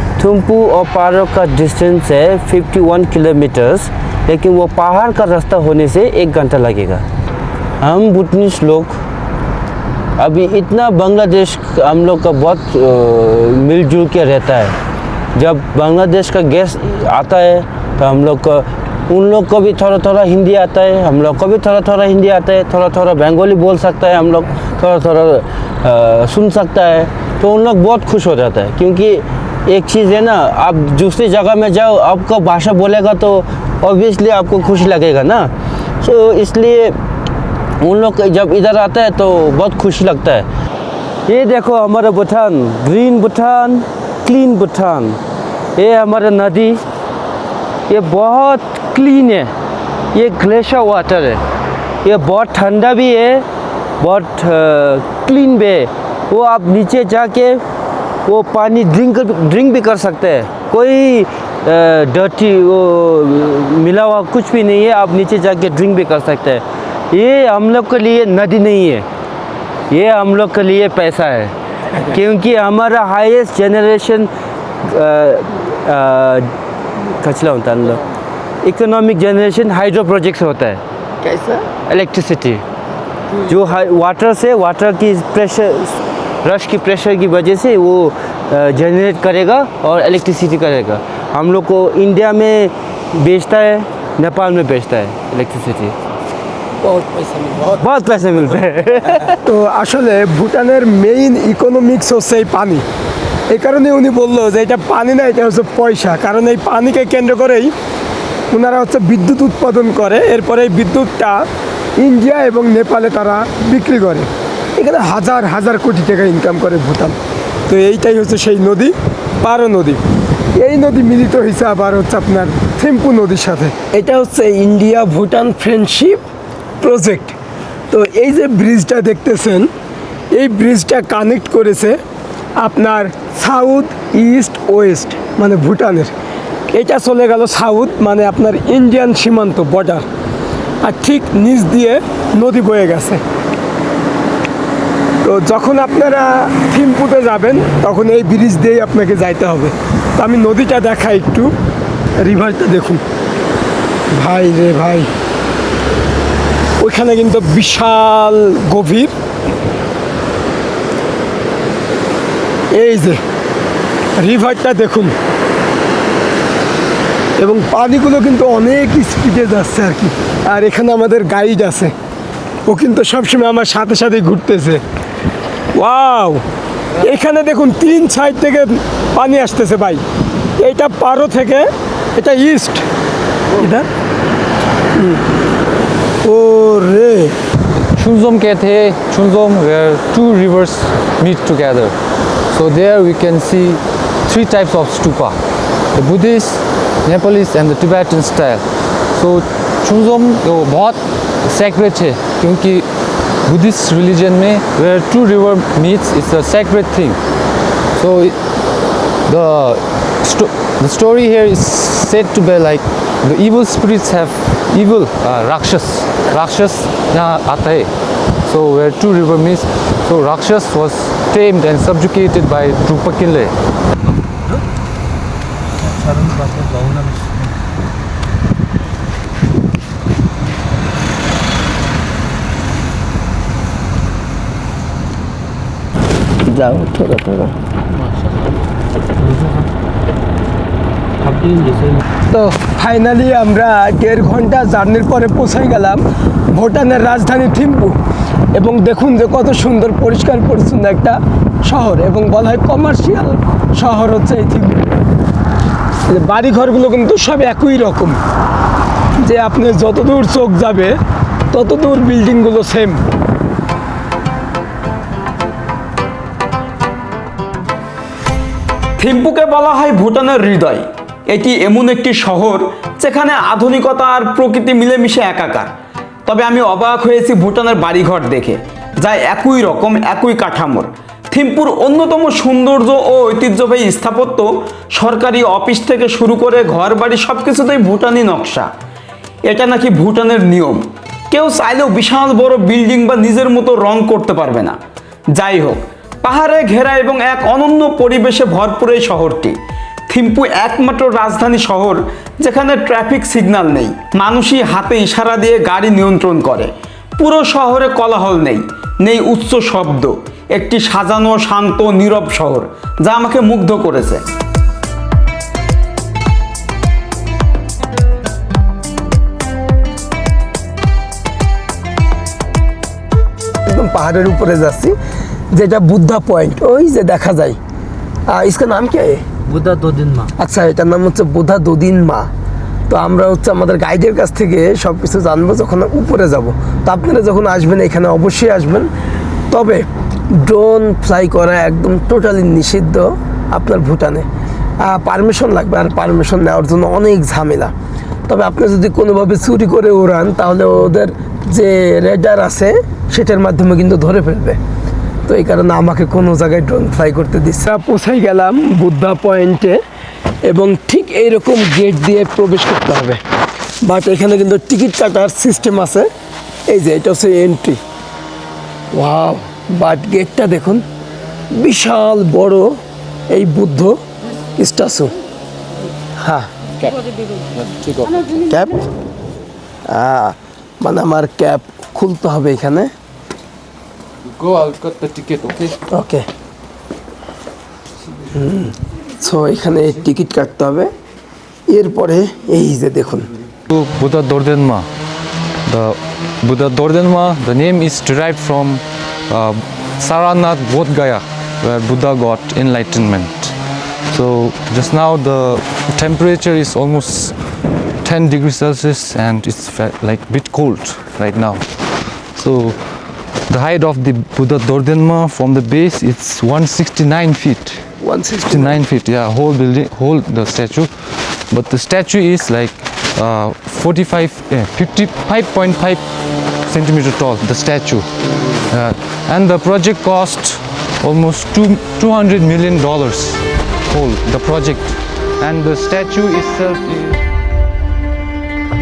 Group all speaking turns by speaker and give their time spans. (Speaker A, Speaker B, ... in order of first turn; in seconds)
Speaker A: 0.2-7.0, 7.8-9.0, 10.2-14.8, 15.3-35.5, 36.0-37.0, 37.8-40.5, 41.3-45.2, 45.8-46.8, 47.9-49.5, 50.1-51.4, 52.0-53.5, 54.0-57.6, 58.2-69.1, 69.9-74.3, 74.8-78.0, 78.6-80.8, 81.7-82.6, 83.5-96.0, 97.5-99.4, 241.3-242.0, 329.5-330.3
Speaker B: 81.2-81.6, 96.9-97.3, 99.4-102.9, 103.5-107.7, 108.5-111.5, 112.0-117.2, 117.7-120.0, 120.5-126.2, 126.8-127.4, 127.9-129.7, 130.3-132.0, 132.6-136.1, 136.7-140.1, 140.8-143.2, 145.2-151.5, 152.2-153.0, 154.1-155.1, 156.8-159.2, 162.8-163.2, 164.2-165.1, 167.4-171.9, 172.7-174.8, 175.8-176.4, 177.0-180.0, 180.6-182.9, 183.5-183.9, 184.9-185.3, 186.2-187.4, 236.4-237.6, 242.3-248.0, 248.6-254.9, 256.1-258.2, 259.2-261.0, 261.5-263.0, 323.7-325.0, 325.5-327.6, 328.3-329.2, 330.4-332.3, 332.9-338.9, 339.5-344.3, 344.8-347.7, 348.3-354.6, 355.3-359.8, 360.5-363.2, 363.8-366.1, 366.7-367.8, 368.9-370.9, 371.5-374.0, 374.6-375.1, 376.2-376.5, 378.3-378.8, 379.9-382.9, 385.9-386.3, 388.3-390.9, 391.7-393.3, 418.0-418.8
Speaker C: 83.3-83.7, 188.0-191.9, 192.5-195.4, 195.9-202.9, 203.4-207.2, 208.0-208.4, 209.3-217.9, 218.4-223.5, 376.8-378.3, 384.2-385.8, 393.7-394.9, 395.7-403.6, 404.1-407.4, 408.0-411.6, 412.4-412.8, 413.5-417.8, 418.5-420.9, 421.5-426.0, 426.6-428.1, 428.7-437.2
Speaker D: 269.0-275.7, 276.3-288.7, 289.5-294.8, 295.4-299.6, 300.1-314.2